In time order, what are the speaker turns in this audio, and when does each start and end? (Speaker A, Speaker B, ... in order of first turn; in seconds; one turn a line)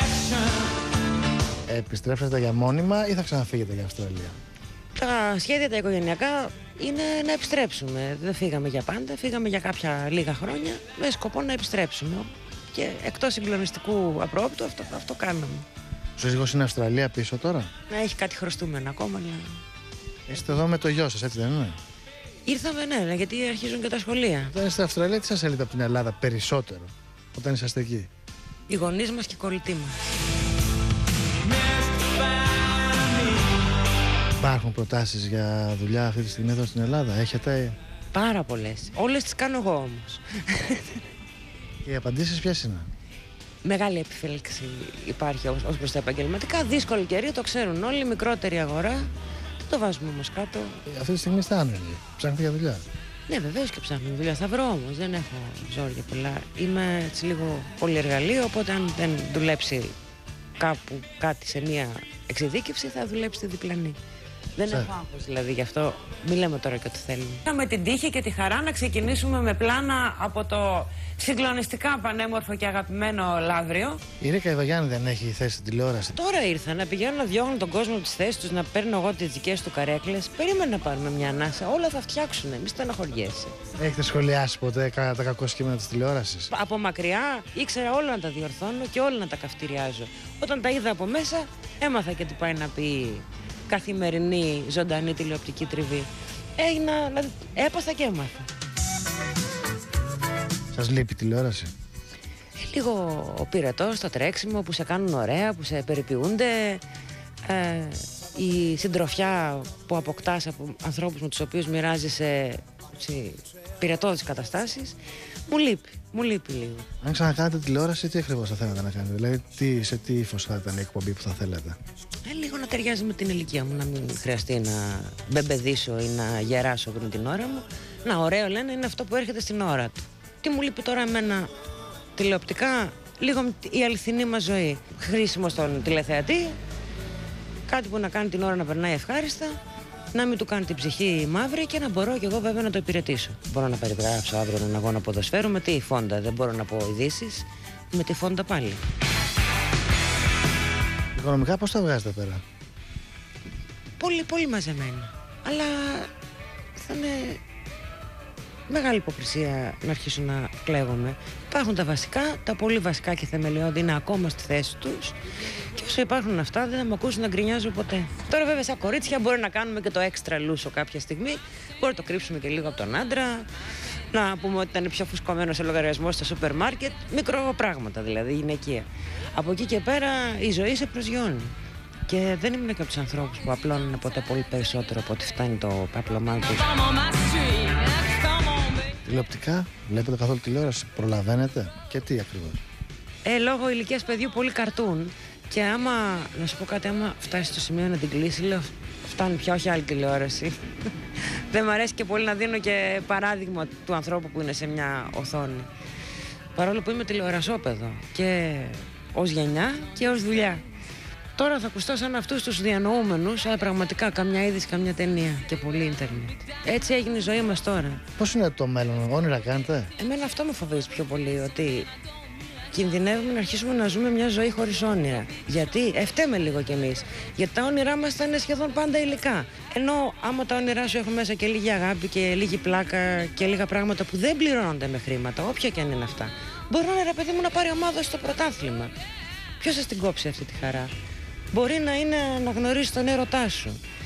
Speaker A: 1.7-4.4
Speaker B: 5.0-15.7
Speaker A: 16.2-17.7
Speaker B: 17.9-19.4
Speaker A: 20.3-21.8
Speaker B: 22.5-24.5
Speaker A: 24.5-28.1
Speaker B: 28.7-30.0
Speaker A: 34.4-37.8
Speaker B: 38.1-41.0
Speaker A: 41.8-42.9
Speaker B: 43.6-49.1
Speaker B: 49.6-50.8
Speaker A: 50.9-52.9
Speaker B: 53.3-59.9
Speaker B: 60.6-64.0
Speaker B: 64.6-74.0
Speaker A: 74.2-76.1
Speaker B: 76.1-83.5
Speaker A: 83.8-86.5
Speaker B: 86.5-98.5
Speaker A: 100.7-101.7
Speaker B: 102.6-106.8
Speaker B: 107.5-115.0
Speaker B: 115.5-116.9
Speaker A: 117.0-121.8
Speaker B: 122.2-131.5
Speaker B: 132.2-136.6
Speaker B: 137.7-139.6
Speaker B: 140.1-148.8
Speaker A: 151.2-152.4
Speaker B: 154.0-156.1
Speaker B: 156.8-157.4
Speaker B: 158.7-165.2
Speaker B: 165.8-173.5
Speaker B: 174.1-181.5
Speaker B: 182.1-187.7
Speaker A: 189.1-192.6
Speaker B: 193.2-200.6
Speaker B: 201.2-205.7
Speaker B: 206.6-210.7
Speaker B: 211.4-218.0
Speaker A: 218.2-219.9
Speaker B: 220.0-221.9
Speaker B: 222.7-238.9
Speaker B: 239.6-240.9
Speaker B: 241.5-243.8